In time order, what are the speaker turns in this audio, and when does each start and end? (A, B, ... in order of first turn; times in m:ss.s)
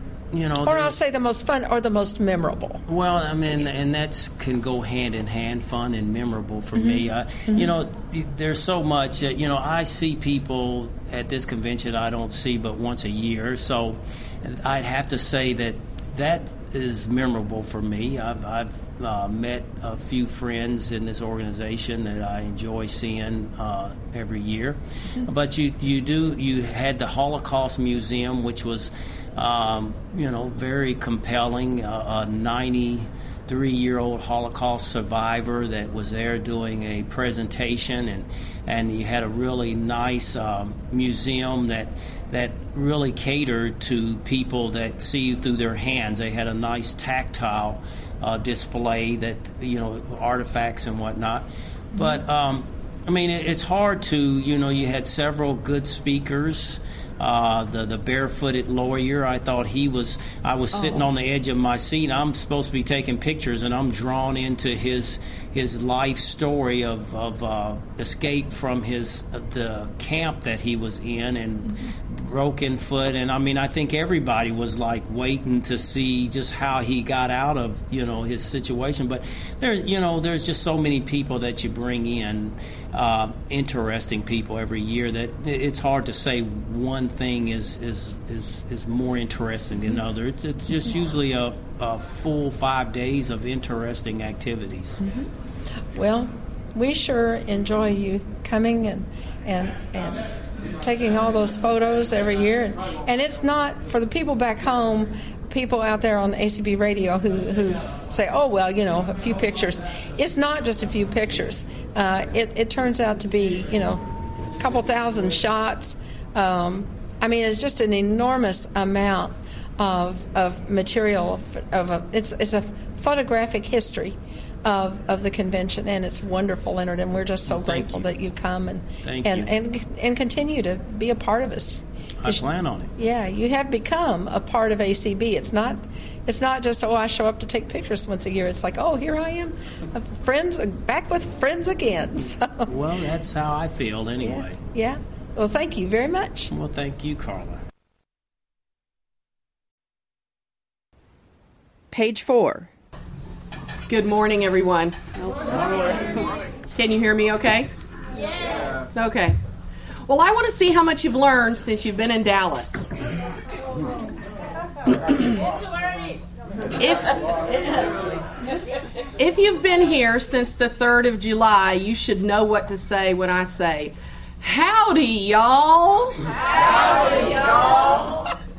0:00.3-0:01.0 A
0:00.6-0:02.8 B
0:02.9-1:35.0 A
0:06.8-0:07.7 B
1:00.7-1:01.1 B
1:35.0-1:35.3 B
1:35.9-1:54.0 B
1:54.6-2:12.4 B
2:07.5-2:08.1 A
2:09.0-2:09.5 A
2:12.2-2:12.9 A
2:13.0-2:22.7 B
2:22.7-2:24.6 A
2:24.2-2:26.5 B
2:26.5-2:27.6 A
2:31.9-2:32.7 B
2:33.9-2:35.0 C
2:36.8-2:37.7 C
2:38.9-2:39.4 C
2:40.1-2:42.8 C
2:45.0-2:45.4 C
2:46.8-2:47.2 C
2:49.2-2:56.3 C